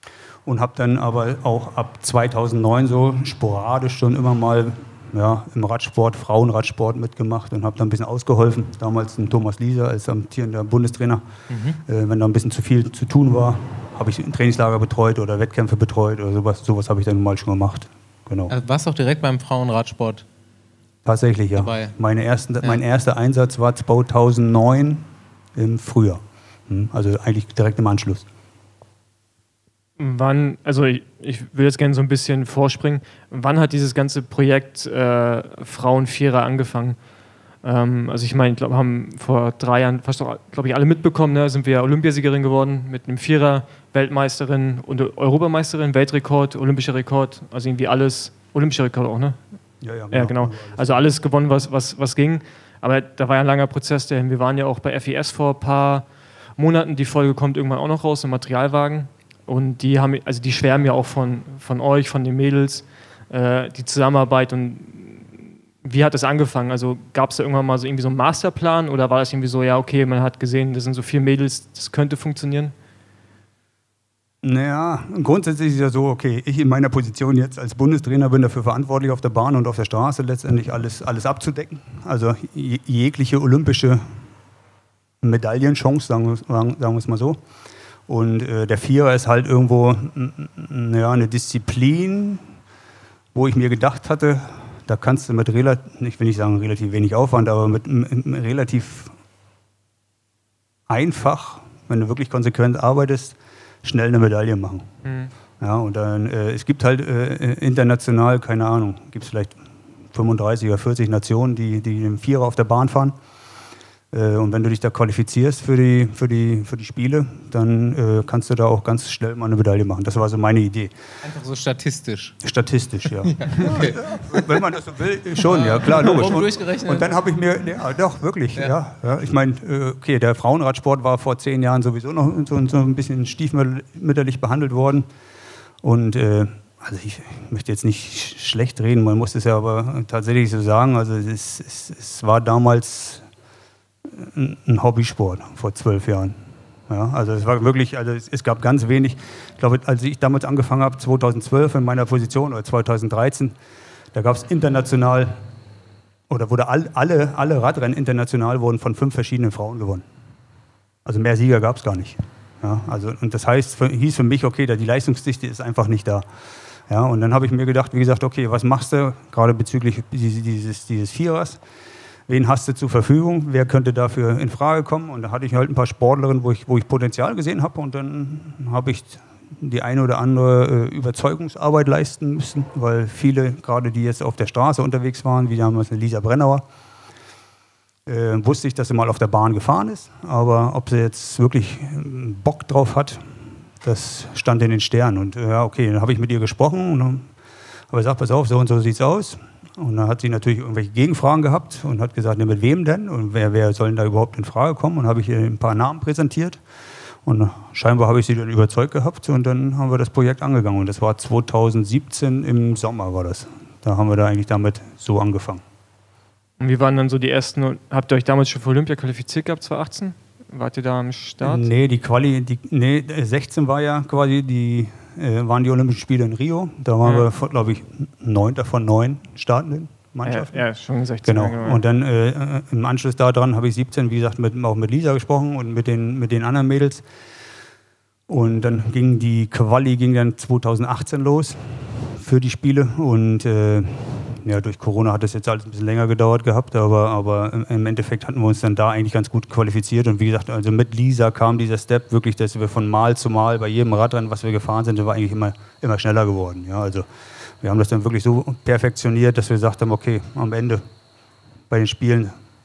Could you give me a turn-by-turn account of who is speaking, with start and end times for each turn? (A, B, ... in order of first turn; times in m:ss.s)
0:00.4-0:11.2 A
0:11.5-0:11.8 B
0:11.8-0:18.5 A
0:18.5-0:20.2 B
0:21.0-0:28.3 A
0:21.6-0:22.0 B
0:30.0-0:37.0 C
0:37.6-0:49.4 C
0:49.8-0:51.1 A
0:50.1-0:56.1 C
0:56.6-1:05.3 C
1:05.8-1:12.7 C
1:14.4-1:24.0 A
1:25.2-1:27.4 A
1:28.1-1:32.4 A
1:33.3-1:39.2 A
1:40.9-1:44.9 A
1:45.0-1:45.3 C
1:45.6-1:49.6 A
1:50.1-1:53.2 A
1:54.1-2:00.9 A
2:01.2-2:02.4 B
2:02.4-2:15.1 A
2:03.2-2:04.6 B
2:05.4-2:07.2 B
2:15.8-2:23.2 A
2:24.0-2:33.6 A
2:34.1-2:35.4 A
2:36.3-2:40.0 A
2:41.0-2:46.3 A
2:46.9-2:51.6 A
2:52.3-3:06.6 A
3:08.1-3:17.3 A
3:17.9-3:26.6 A
3:27.2-3:35.6 A
3:36.6-3:41.7 C
3:41.4-3:50.6 A
3:47.0-3:47.3 C
3:50.2-3:51.8 C
3:51.2-3:57.0 A
3:58.3-4:17.1 A
4:17.6-4:20.8 A
4:21.7-4:22.4 A